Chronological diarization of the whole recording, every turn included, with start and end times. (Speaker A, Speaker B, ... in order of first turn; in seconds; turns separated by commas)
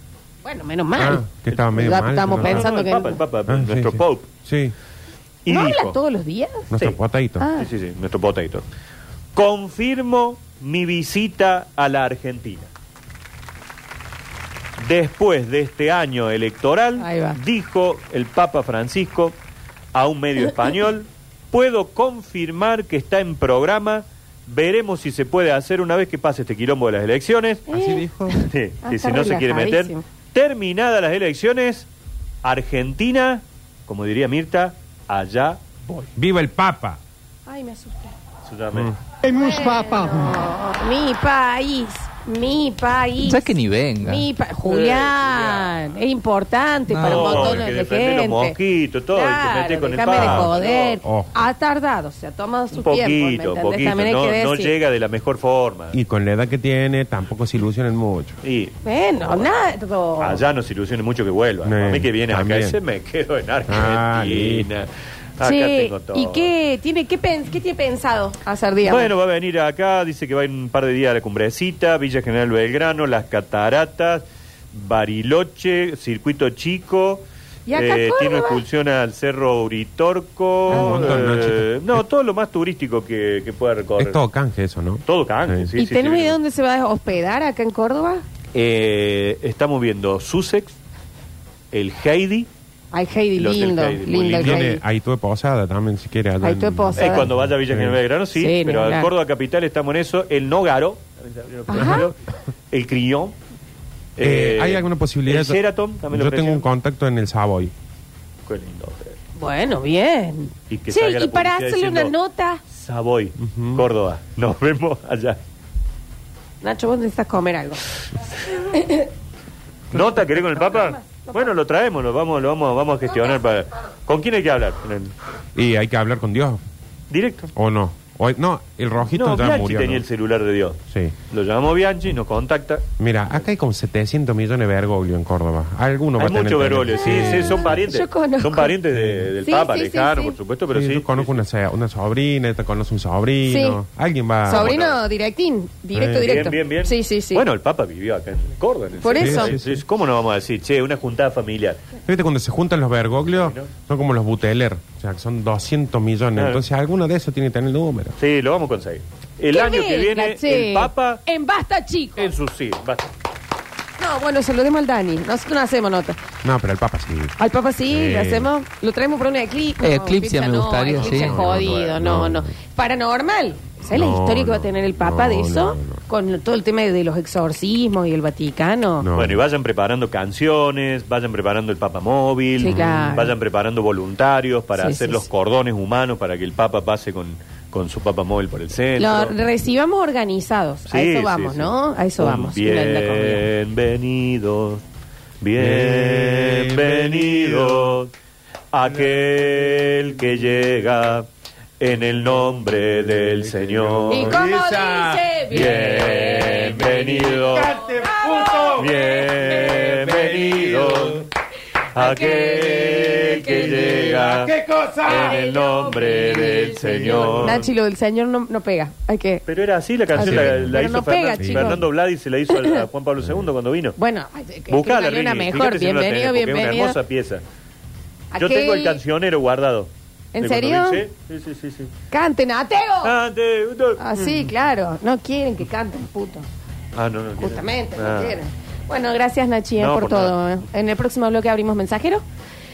Speaker A: 0.4-1.2, Speaker B: 1.0-2.7, Speaker C: 1.5-4.3, Speaker A: 1.8-3.2, Speaker B: 3.5-4.7, Speaker C: 5.5-6.0, Speaker A: 5.5-6.7, Speaker B: 6.7-7.5, Speaker A: 7.4-7.7, Speaker C: 7.6-8.6, Speaker C: 9.3-12.7, Speaker C: 14.8-19.4, Speaker A: 17.0-17.4, Speaker C: 19.9-27.7, Speaker A: 27.7-28.1, Speaker B: 27.7-28.4, Speaker C: 28.3-31.9, Speaker A: 28.8-30.0, Speaker C: 32.4-36.1, Speaker B: 36.2-37.0, Speaker A: 37.5-38.1, Speaker C: 38.5-39.0, Speaker A: 39.3-43.5, Speaker D: 43.2-44.3, Speaker A: 44.0-48.6, Speaker C: 44.7-45.8, Speaker D: 46.9-47.7, Speaker C: 47.0-51.0, Speaker A: 49.1-54.7, Speaker B: 50.1-51.5, Speaker C: 52.7-56.0, Speaker B: 55.9-58.4, Speaker C: 58.4-59.6, Speaker A: 58.9-60.4, Speaker C: 60.2-66.5, Speaker B: 61.6-62.8, Speaker B: 63.7-64.7, Speaker A: 65.4-69.1, Speaker C: 68.8-84.2, Speaker A: 77.7-78.6, Speaker B: 80.7-81.8, Speaker A: 80.8-81.4, Speaker B: 84.0-85.7, Speaker C: 85.1-86.4, Speaker A: 85.8-88.2, Speaker C: 88.5-90.8, Speaker C: 91.7-92.5, Speaker A: 92.9-94.8, Speaker C: 93.3-94.7, Speaker B: 94.3-98.0, Speaker A: 96.4-97.3, Speaker C: 97.0-102.2, Speaker A: 98.4-99.1, Speaker A: 101.7-102.1, Speaker C: 102.7-103.3, Speaker C: 104.2-106.7, Speaker B: 104.2-107.7, Speaker C: 108.5-109.2, Speaker A: 109.4-112.6, Speaker C: 110.7-112.1, Speaker C: 112.7-115.4, Speaker B: 113.4-113.9, Speaker A: 116.6-117.8, Speaker A: 118.5-119.1, Speaker C: 119.9-125.1, Speaker A: 120.4-121.5, Speaker B: 125.5-126.6, Speaker C: 127.1-127.5, Speaker B: 127.5-130.0, Speaker C: 129.1-130.8, Speaker C: 131.3-132.9, Speaker B: 133.0-137.8, Speaker C: 136.2-141.4, Speaker A: 137.6-138.8, Speaker B: 139.0-139.3, Speaker A: 139.4-140.3, Speaker B: 140.7-144.8, Speaker A: 143.5-143.8, Speaker A: 144.4-147.4, Speaker C: 144.5-145.0, Speaker B: 145.9-146.3, Speaker C: 146.2-151.8, Speaker A: 149.0-149.6, Speaker B: 149.2-149.8, Speaker B: 152.1-158.2, Speaker C: 153.3-153.7, Speaker C: 156.4-156.6, Speaker C: 158.2-161.2, Speaker A: 159.5-162.3, Speaker C: 162.2-163.1, Speaker A: 164.0-166.2, Speaker B: 166.4-167.3, Speaker A: 167.4-179.1, Speaker B: 167.9-168.5, Speaker D: 169.8-171.5, Speaker C: 170.9-172.0, Speaker B: 171.1-172.5, Speaker B: 173.9-176.0, Speaker B: 179.0-179.4, Speaker C: 179.2-189.4, Speaker A: 182.6-183.3, Speaker B: 182.6-183.1, Speaker A: 184.8-185.3, Speaker A: 189.0-193.5, Speaker C: 190.9-194.8, Speaker C: 195.4-198.1, Speaker B: 195.6-198.0, Speaker C: 198.7-201.3, Speaker C: 201.8-204.4, Speaker B: 203.5-205.8, Speaker A: 204.1-209.8, Speaker C: 205.5-207.7, Speaker B: 206.3-211.3, Speaker C: 208.8-211.3, Speaker A: 211.9-214.2, Speaker C: 211.9-214.5, Speaker B: 213.4-215.4, Speaker A: 215.0-219.4, Speaker C: 215.1-217.7, Speaker B: 217.2-217.6, Speaker C: 219.5-224.0, Speaker A: 220.1-221.8, Speaker B: 220.2-220.8, Speaker B: 221.4-221.8, Speaker A: 222.5-222.8, Speaker B: 223.2-223.5, Speaker A: 224.0-227.0, Speaker C: 224.7-227.4, Speaker A: 228.3-229.0, Speaker C: 228.4-231.9, Speaker A: 230.3-231.1, Speaker A: 232.1-233.1, Speaker C: 233.0-234.4, Speaker A: 234.0-236.5, Speaker C: 236.9-238.4, Speaker A: 237.4-242.2, Speaker C: 239.8-240.5